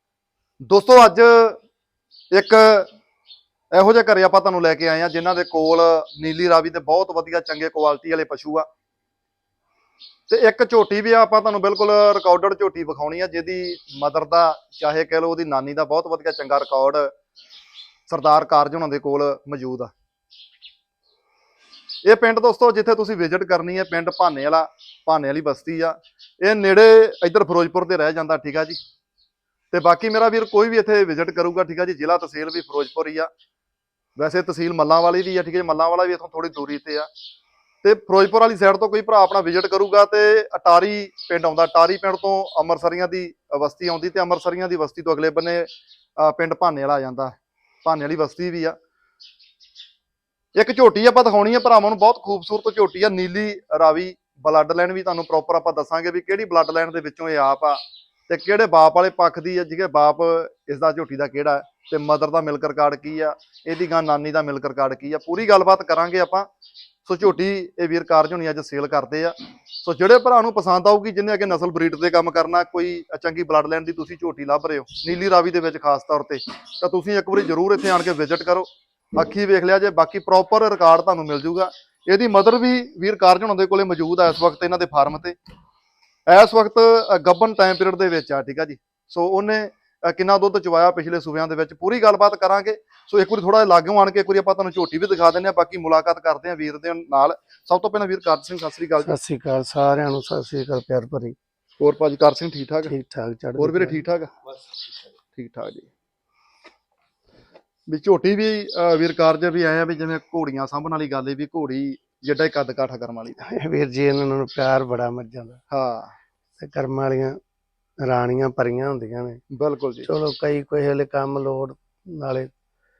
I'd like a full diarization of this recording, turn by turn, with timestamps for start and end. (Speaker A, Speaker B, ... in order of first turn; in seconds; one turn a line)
Speaker A: 0.6-1.6
Speaker A: 2.3-2.9
Speaker A: 3.7-8.7
Speaker A: 10.3-17.1
Speaker A: 18.1-19.9
Speaker A: 22.0-28.8
Speaker A: 29.7-33.3
Speaker A: 34.1-37.1
Speaker A: 37.8-48.8
Speaker A: 50.5-66.5
Speaker A: 67.0-85.4
Speaker A: 86.3-99.2
Speaker B: 99.0-101.3
Speaker A: 101.8-102.9
Speaker B: 102.9-104.0
Speaker A: 103.6-104.3
Speaker A: 105.3-105.9
Speaker A: 107.9-113.4
Speaker B: 113.4-115.6
Speaker A: 115.7-116.1
Speaker B: 116.6-117.4
Speaker B: 118.0-119.4
Speaker A: 119.5-120.1
Speaker B: 120.0-122.5